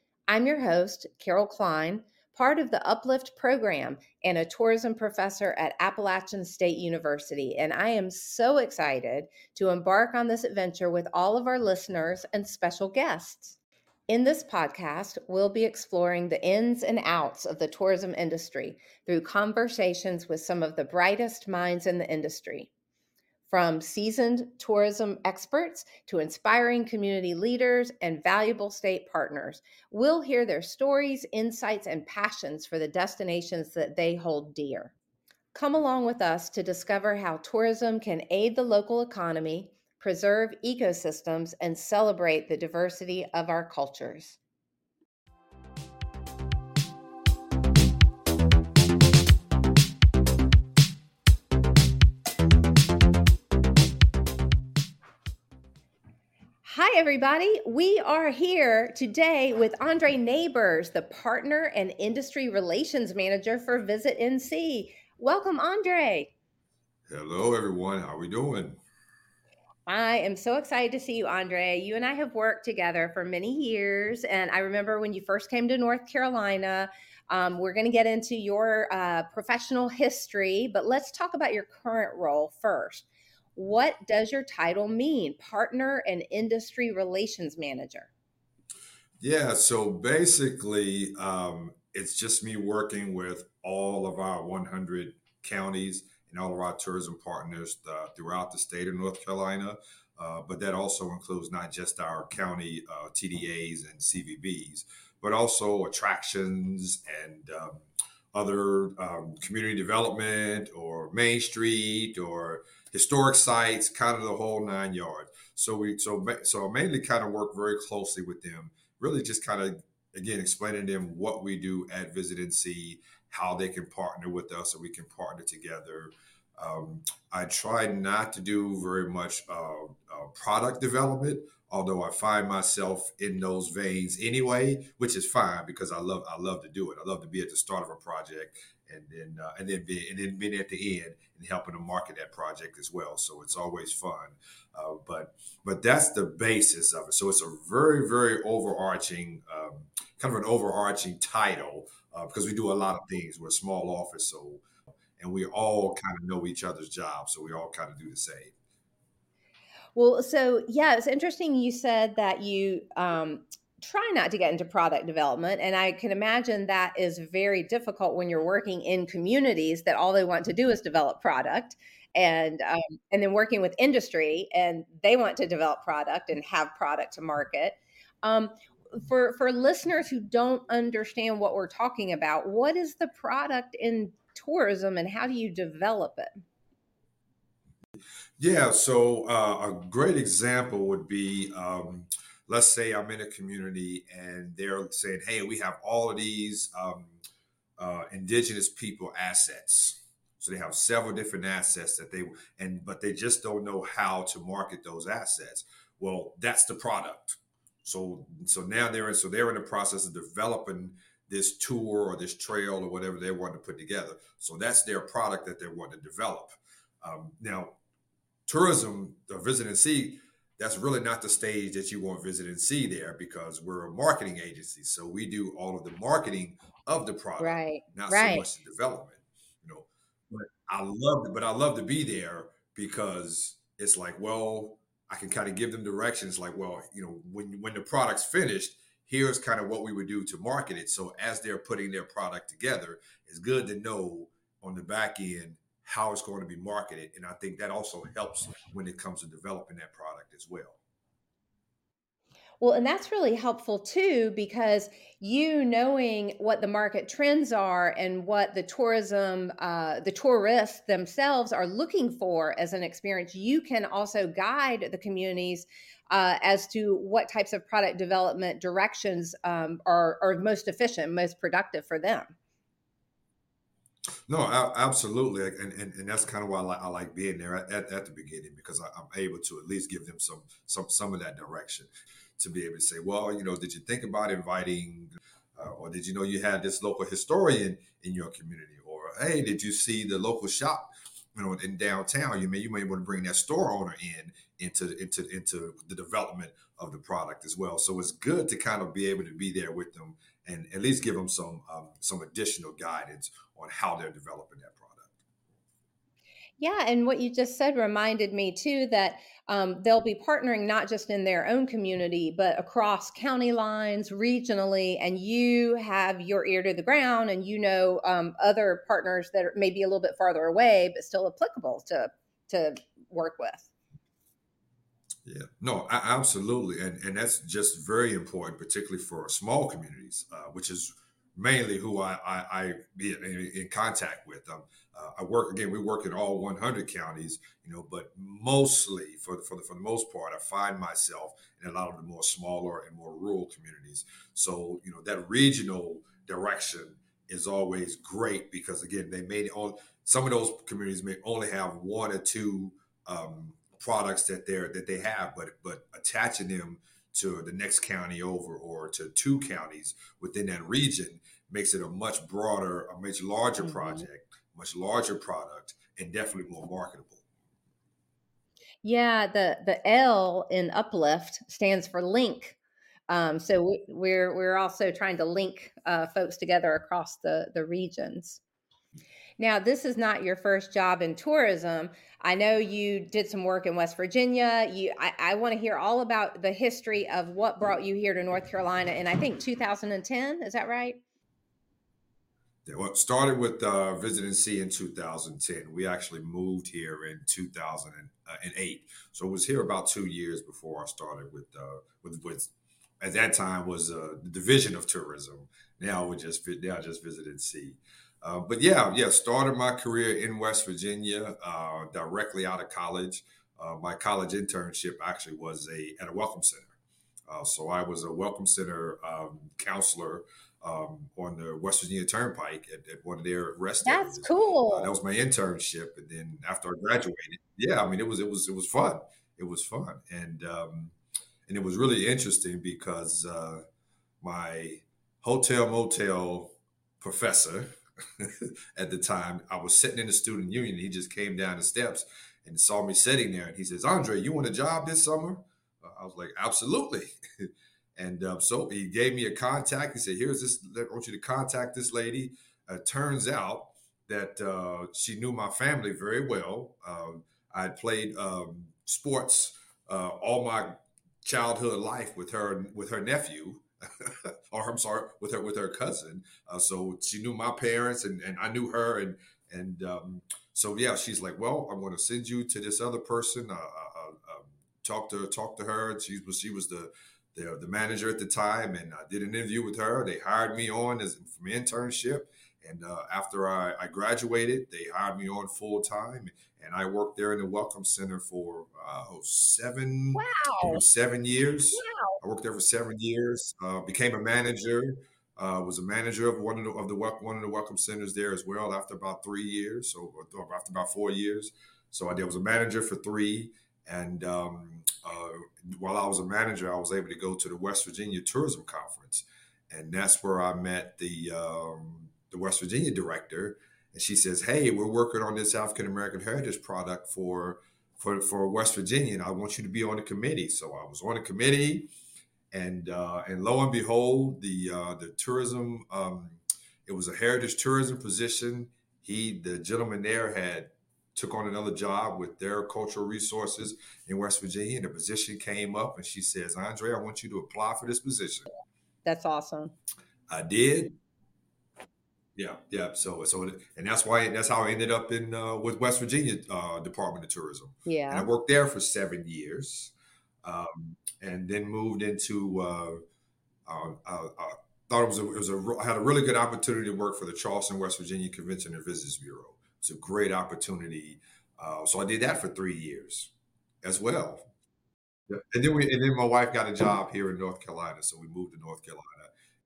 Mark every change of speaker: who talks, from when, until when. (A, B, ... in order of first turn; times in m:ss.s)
0:00.3-0:13.6 A
0:14.1-0:22.7 A
0:23.5-0:34.9 A
0:35.5-0:44.4 A
0:56.6-1:06.3 A
1:07.1-1:08.8 B
1:09.9-1:28.1 A
1:29.2-2:34.6 B
2:35.2-2:38.5 B
2:40.0-3:06.3 A
3:08.4-3:17.2 B
3:17.8-3:37.8 B
3:38.5-4:10.8 B
3:47.4-3:48.4 A
4:12.6-4:32.3 A
4:34.3-5:05.1 B
5:06.6-5:23.7 A
5:25.2-6:07.2 B
6:03.6-6:04.0 A
6:08.8-6:12.6 A
6:13.1-6:18.4 A
6:19.4-6:31.0 A
6:32.7-6:56.8 B
6:57.3-7:11.0 B
7:03.8-7:04.9 A
7:11.5-7:13.6 B
7:14.2-8:41.9 B
8:10.2-8:10.8 A
8:11.7-8:12.2 A
8:42.5-8:58.5 B
8:59.0-8:59.7 A
9:00.3-9:01.0 B
9:02.4-9:09.9 B
9:07.9-9:08.3 A
9:10.4-9:13.0 B
9:13.7-9:23.3 B
9:23.8-9:24.5 B
9:25.3-9:29.3 B